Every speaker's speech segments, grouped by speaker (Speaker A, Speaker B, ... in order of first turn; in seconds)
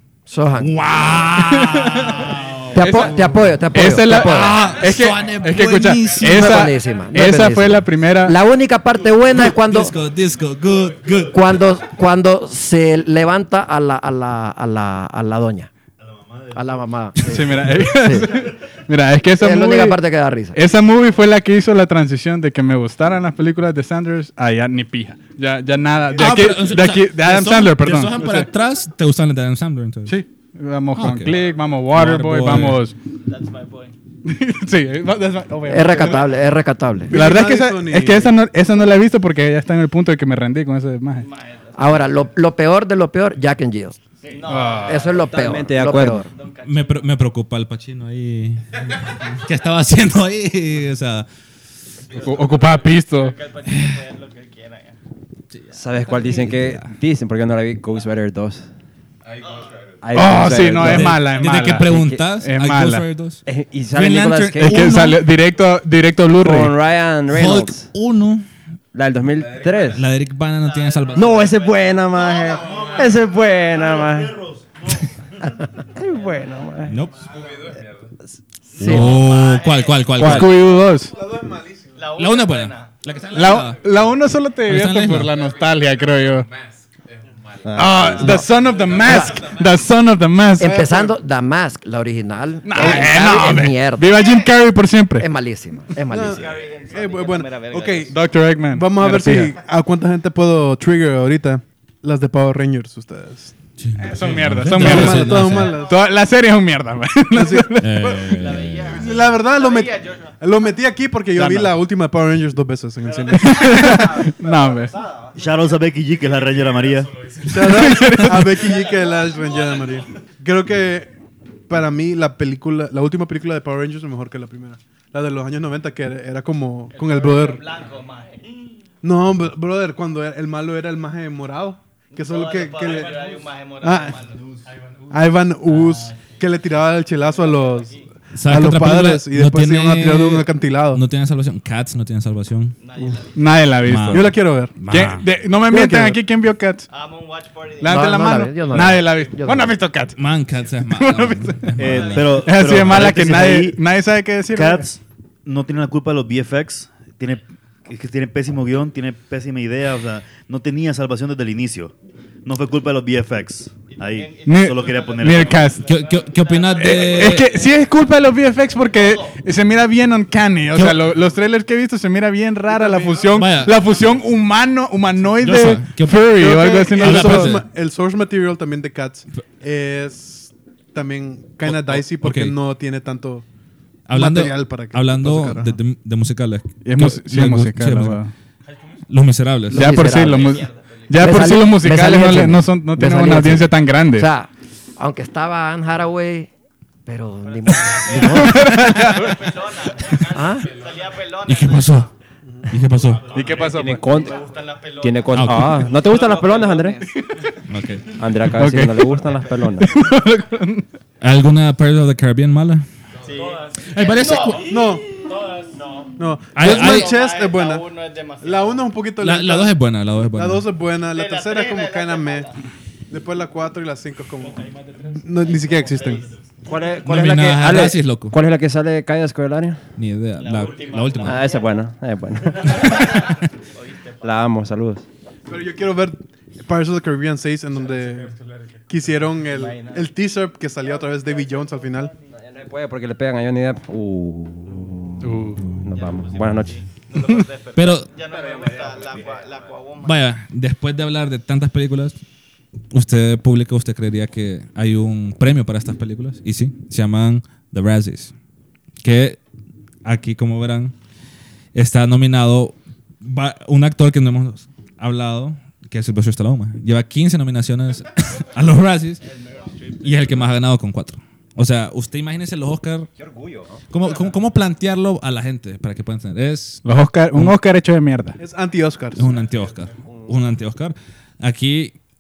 Speaker A: 0.3-0.8, 2.7-4.6, 6.2-9.9, 11.3-15.7, 16.5-18.4, 19.4-20.6, 35.7-37.2, 41.8-44.0, 44.7-46.3, 78.8-79.1, 89.0-89.4, 90.6-94.3, 95.2-96.5, 147.9-149.8, 189.7-196.5, 197.1-198.7, 200.2-200.7
Speaker B: 0.6-3.3, 4.0-6.7, 9.4-11.5, 17.2-17.5, 26.1-30.2, 30.9-32.8, 46.6-51.3, 53.7-54.0, 55.5-56.9, 60.8-65.2, 67.3-68.5, 69.9-71.5, 76.9-77.3, 78.8-80.6, 82.2-83.9, 84.7-85.3, 103.8-105.8, 107.8-109.1, 138.3-142.8, 143.8-145.3, 150.2-153.2, 165.8-167.5, 170.7-171.0, 173.3-173.8, 175.4-177.6, 181.7-182.6, 184.1-188.2, 189.1-190.0, 201.4-202.1, 202.7-203.4, 205.3-205.9, 207.7-209.1, 211.2-212.9, 213.9-214.8, 216.6-217.2, 219.2-220.7, 227.1-228.4, 230.0-231.5, 232.7-233.3, 247.8-248.1, 250.0-252.2, 252.9-258.3, 259.0-259.4, 260.1-260.9, 261.7-269.2, 270.0-273.1, 273.9-276.8, 279.1-281.9
Speaker C: 0.9-1.3, 2.1-2.6, 4.9-7.3, 33.2-34.0, 41.1-42.1, 44.2-45.3, 46.2-47.0, 52.0-55.0, 59.4-59.9, 70.8-71.8, 78.8-80.5, 82.0-83.4, 88.8-89.5, 96.1-98.2, 105.3-106.1, 108.0-110.3, 113.2-115.3, 118.6-120.0, 126.9-128.8, 132.2-134.6, 135.6-138.1, 142.8-143.9, 146.9-149.3, 151.8-152.5, 163.9-169.5, 172.7-174.3, 190.1-191.5, 197.7-202.1, 203.2-207.4, 209.2-210.1, 213.2-214.8, 215.7-219.0, 221.0-222.6, 224.5-226.4, 230.4-231.9, 232.4-234.4, 239.5-240.1, 240.8-242.3, 245.9-250.2, 269.2-270.5
Speaker D: 1.4-8.3, 17.3-20.0, 20.5-28.5, 30.1-33.0, 34.2-36.3, 37.1-41.3, 44.5-44.9, 52.1-53.4, 60.1-63.1, 64.6-66.8, 78.8-79.2, 80.1-81.2, 83.3-86.5, 87.8-90.8, 92.6-95.3, 98.1-99.6, 104.0-108.5, 111.4-111.7, 113.3-115.0, 117.6-118.5, 143.3-146.9, 147.8-150.2, 150.9-151.8, 152.4-154.9, 164.4-165.9, 166.8-177.6, 186.8-188.3, 189.7-194.3, 198.1-199.4, 203.2-204.0, 208.5-209.0, 209.8-210.8, 245.2-245.8, 276.8-278.4
Speaker E: 16.0-16.6, 26.0-26.8, 72.1-75.1, 115.3-117.3, 151.8-153.8, 154.5-161.9, 162.4-165.7
Speaker F: 37.1-38.4, 81.1-82.0, 90.6-91.1, 96.1-103.5, 104.7-106.0, 107.3-107.7, 109.0-114.1, 117.5-121.1, 121.7-127.7, 129.0-134.2, 135.1-141.0, 144.1-144.7, 176.4-183.5, 184.1-185.8, 214.6-215.1, 216.2-217.9, 218.4-222.5, 223.1-226.3, 235.5-238.3, 238.9-242.1, 278.4-279.3
Speaker G: 45.1-46.3, 55.7-58.7, 60.0-62.2, 63.5-65.0, 66.4-67.9, 68.9-70.0, 71.2-74.4, 76.0-77.0, 87.6-88.5, 203.6-204.5, 205.0-207.1, 208.2-210.0, 226.7-229.8, 231.2-233.2, 234.2-235.1, 242.4-246.8, 273.2-273.8, 280.1-280.4